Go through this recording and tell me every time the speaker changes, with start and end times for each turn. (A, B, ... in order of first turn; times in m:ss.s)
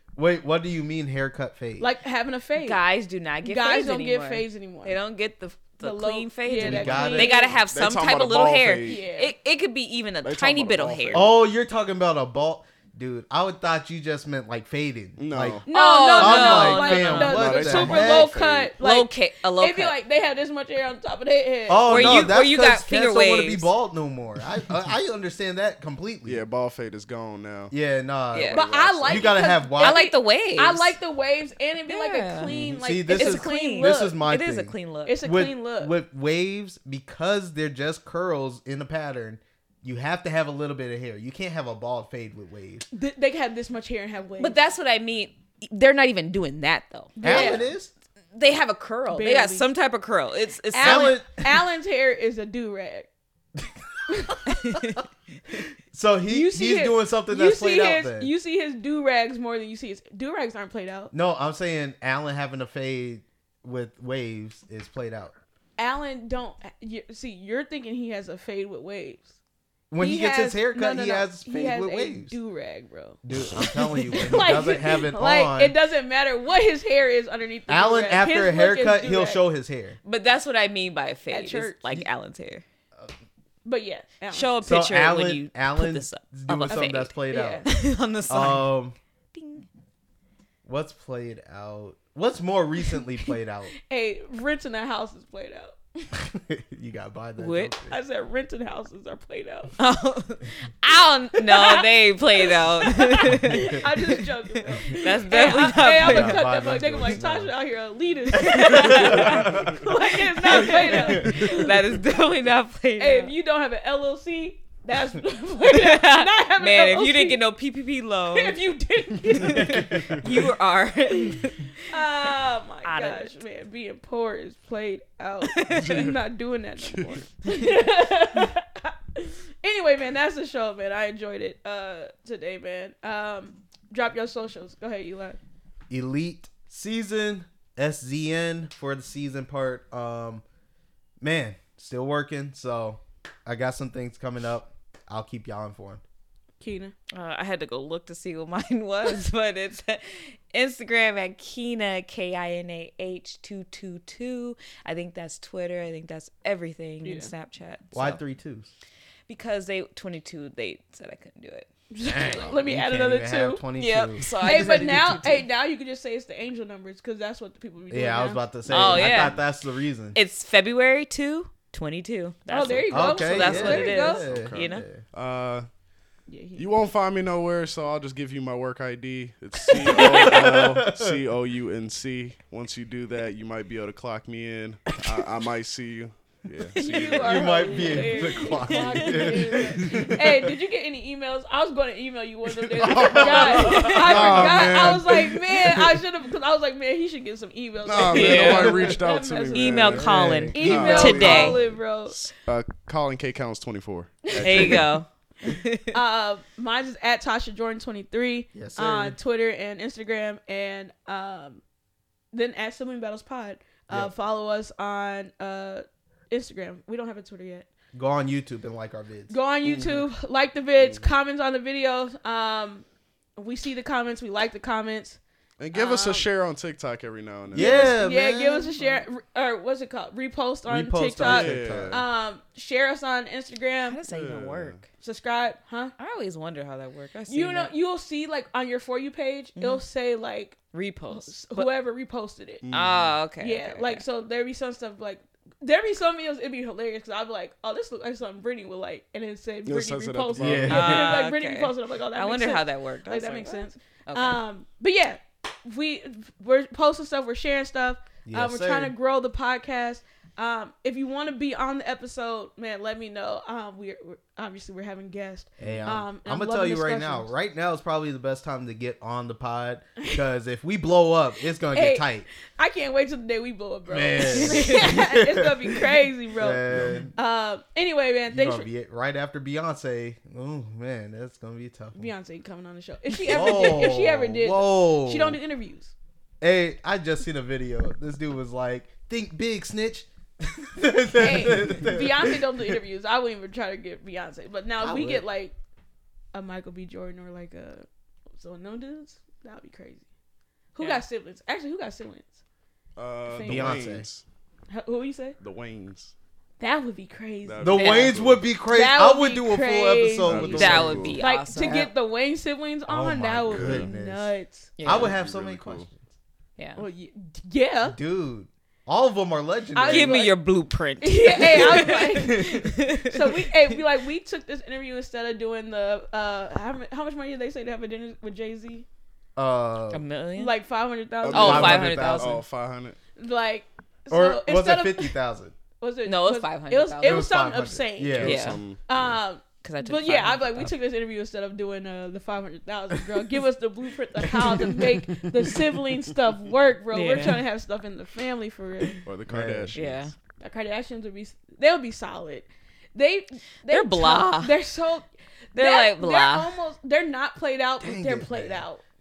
0:00.2-0:01.9 A
0:01.8-0:02.8 B
0:02.6-0:11.2 C
0:03.4-0:05.0 B
0:05.8-0:07.6 B
0:06.6-0:07.4 A
0:07.7-0:09.0 D
0:08.8-0:09.3 B
0:10.2-0:11.4 D
0:11.1-0:18.3 A
0:15.2-0:15.7 D
0:15.7-0:22.3 B
0:15.7-0:17.4 C
0:17.2-0:18.7 D
0:18.8-0:20.0 C
0:21.7-0:26.4 A
0:21.9-0:23.7 C
0:26.2-0:27.7 D
0:27.7-0:30.0 A
0:28.3-0:28.6 C
0:28.5-0:29.3 D
0:28.6-0:34.2 B
0:29.8-0:30.9 C
0:31.9-0:32.5 C
0:32.5-0:32.8 D
0:32.8-0:42.8 A
0:33.1-0:35.2 C
0:35.0-0:36.0 B
0:42.9-0:44.6 B
0:44.4-0:47.6 C
0:47.2-0:47.7 B
0:47.2-0:47.9 A
0:48.3-0:51.2 C
0:49.1-0:49.6 B
0:50.7-0:53.1 B
0:50.8-0:51.6 A
0:54.5-0:55.0 C
0:55.5-0:58.3 A
0:56.3-1:01.1 B
1:01.1-1:05.4 A
1:05.8-1:09.3 B
1:09.9-1:12.3 A
1:10.0-1:19.4 B
1:13.2-1:15.8 A
1:17.7-1:20.0 A
1:20.0-1:22.6 C
1:21.3-1:21.7 B
1:23.6-1:24.6 B
1:24.3-1:28.8 C
1:24.6-1:27.8 A
1:27.3-1:27.7 B
1:28.3-1:29.0 A
1:29.3-1:29.6 C
1:30.6-1:33.7 A
1:33.9-1:36.1 B
1:36.1-1:38.0 A
1:37.4-1:37.7 C
1:37.9-1:39.7 B
1:39.8-1:43.7 C
1:41.5-1:41.8 B
1:42.4-1:51.7 B
1:44.9-1:46.6 C
1:45.9-1:47.5 A
1:48.3-1:49.9 A
1:48.4-1:49.4 C
1:50.5-1:53.3 C
1:50.8-1:51.5 A
1:53.0-1:57.4 B
1:55.7-1:58.7 C
1:58.3-2:00.0 B
1:59.4-2:01.7 C
1:59.7-2:00.1 A
2:01.9-2:15.4 B
2:02.8-2:03.3 C
2:05.5-2:06.1 C
2:05.8-2:06.2 D
2:06.8-2:07.2 D
2:15.9-2:20.4 A
2:21.2-2:26.0 A
2:26.6-2:26.9 B
2:27.1-2:38.2 C
2:37.0-2:37.3 B
2:37.9-2:38.7 A
2:39.3-2:41.7 C
2:41.9-2:43.6 B
2:42.0-2:44.9 A
2:43.8-2:45.5 C
2:44.4-2:48.8 B
2:47.9-2:50.2 A
2:48.7-2:49.4 C
2:50.1-2:54.8 C
2:52.5-2:54.2 B
2:52.9-2:55.0 A
2:53.3-2:55.7 D
2:56.3-2:56.7 B
2:56.6-3:07.7 D
2:59.8-3:00.3 B
3:00.1-3:01.2 A
3:06.8-3:22.3 B
3:07.2-3:10.1 A
3:07.8-3:09.5 C
3:12.6-3:16.0 D
3:12.9-3:15.0 A
3:13.5-3:14.4 C
3:17.8-3:24.9 D
3:18.1-3:18.9 C
3:19.5-3:21.6 C
3:20.0-3:21.5 A
3:24.3-3:24.8 B
3:24.4-3:25.9 C
3:25.9-3:31.6 B
3:28.5-3:29.2 A
3:32.3-3:37.6 B
3:37.9-3:39.3 A
3:39.3-3:45.2 B
3:39.6-3:40.0 D
3:40.8-3:41.1 D
3:45.6-3:48.0 D
3:45.7-3:46.2 B
3:47.5-3:48.7 A
3:47.5-3:54.0 B
3:50.7-3:52.0 A
3:51.2-3:52.0 D
3:53.8-3:54.8 C
3:54.1-3:54.8 D
3:55.0-3:55.9 B
3:56.0-3:57.7 C
3:57.3-4:00.6 B
3:59.6-3:59.8 C
4:00.7-4:01.7 C
4:01.1-4:02.6 B
4:02.6-4:03.2 D
4:02.7-4:04.0 C
4:03.4-4:27.3 B
4:09.6-4:10.8 D
4:10.4-4:11.2 A
4:10.7-4:14.4 C
4:18.2-4:18.9 A
4:25.6-4:32.3 A
4:31.7-4:36.6 B
4:33.9-4:35.5 A
4:36.4-4:37.1 A
4:36.7-4:37.0 D
4:37.1-4:38.7 B
4:38.3-4:42.1 A
4:41.9-4:45.9 B
4:43.3-4:45.4 A
4:46.4-4:52.4 A
4:51.2-4:55.5 B
4:54.8-4:55.2 A
4:56.3-5:00.0 B
5:00.7-5:02.3 B
5:03.0-5:04.2 D
5:03.2-5:03.8 B
5:03.4-5:04.1 A
5:04.7-5:05.4 B
5:05.4-5:06.1 D
5:06.6-5:07.9 B
5:07.4-5:08.4 D
5:07.6-5:11.9 A
5:07.8-5:08.1 C
5:08.7-5:14.7 B
5:10.2-5:11.2 D
5:10.5-5:11.9 C
5:12.9-5:16.0 A
5:13.5-5:13.9 D
5:14.8-5:15.1 C
5:14.8-5:15.9 D
5:16.6-5:16.8 C
5:16.8-5:18.0 B
5:17.8-5:20.2 A
5:19.7-5:20.4 B
5:19.9-5:23.5 C
5:21.0-5:28.8 B
5:21.5-5:22.7 A
5:29.4-5:30.0 A
5:29.9-5:30.5 C
5:30.4-5:31.8 B
5:31.2-5:33.0 D
5:31.3-5:32.4 C
5:31.3-5:32.4 A
5:33.2-5:35.1 B
5:34.1-5:35.5 A
5:35.8-5:49.0 B
5:36.0-5:37.2 C
5:37.0-5:38.6 A
5:38.1-5:39.2 D
5:38.2-5:38.6 C
5:39.6-5:40.8 C
5:44.5-5:45.7 D
5:46.9-5:47.4 C
5:49.0-5:50.1 D
5:49.3-5:49.8 A
5:49.7-5:50.1 C
5:50.4-5:58.8 B
5:53.7-5:54.6 C
5:55.5-5:56.6 C
5:57.8-5:58.6 A